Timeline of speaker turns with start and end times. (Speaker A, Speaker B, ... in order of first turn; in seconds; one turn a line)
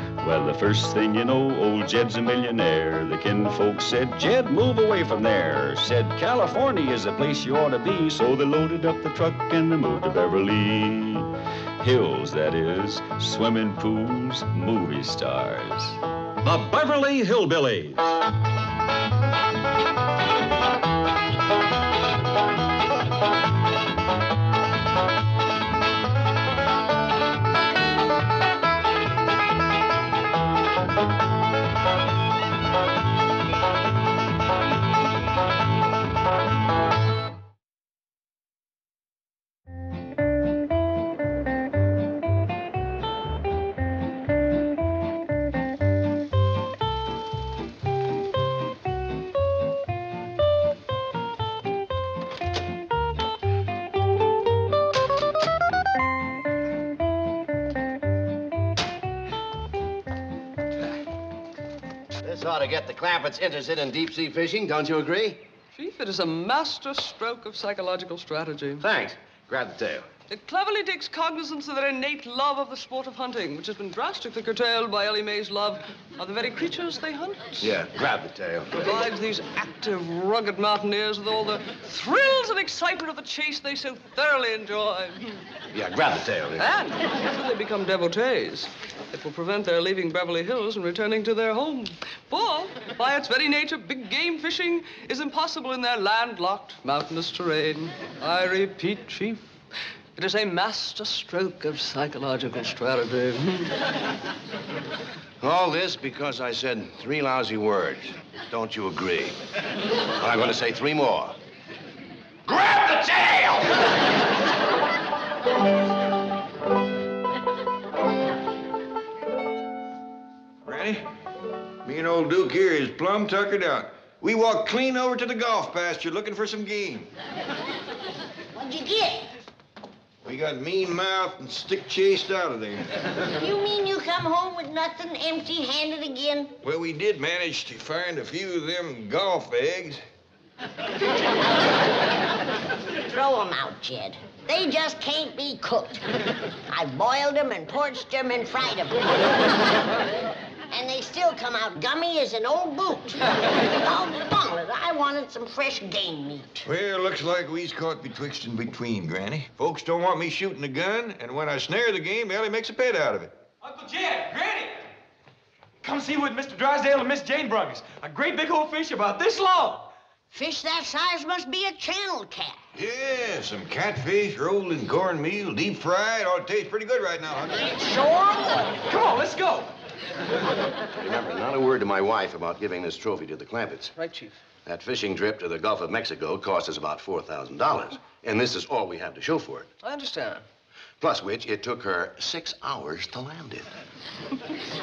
Speaker A: 0.2-16.0
Speaker B: 16.4-18.1
Speaker C: 62.2-65.4
Speaker D: 65.7-68.8
Speaker C: 68.8-70.1
Speaker D: 70.3-77.7
Speaker C: 77.6-78.9
Speaker D: 78.7-85.4
Speaker C: 85.7-86.7
Speaker D: 86.6-99.5
Speaker D: 100.1-103.7
Speaker C: 105.4-109.4
Speaker C: 110.2-111.4
Speaker C: 112.5-113.6
Speaker E: 120.6-121.1
Speaker E: 121.8-127.1
Speaker F: 128.5-129.3
Speaker E: 130.2-132.8
Speaker F: 133.3-136.5
Speaker E: 136.6-140.0
Speaker F: 143.1-146.0
Speaker F: 146.7-149.0
Speaker F: 150.7-153.2
Speaker F: 153.8-156.7
Speaker E: 156.6-163.4
Speaker B: 163.6-164.9
Speaker B: 165.8-169.9
Speaker F: 170.3-172.6
Speaker E: 172.7-177.7
Speaker B: 177.7-179.7
Speaker C: 180.9-183.9
Speaker D: 183.9-184.4
Speaker C: 184.6-189.7
Speaker D: 189.8-190.4
Speaker C: 191.0-193.7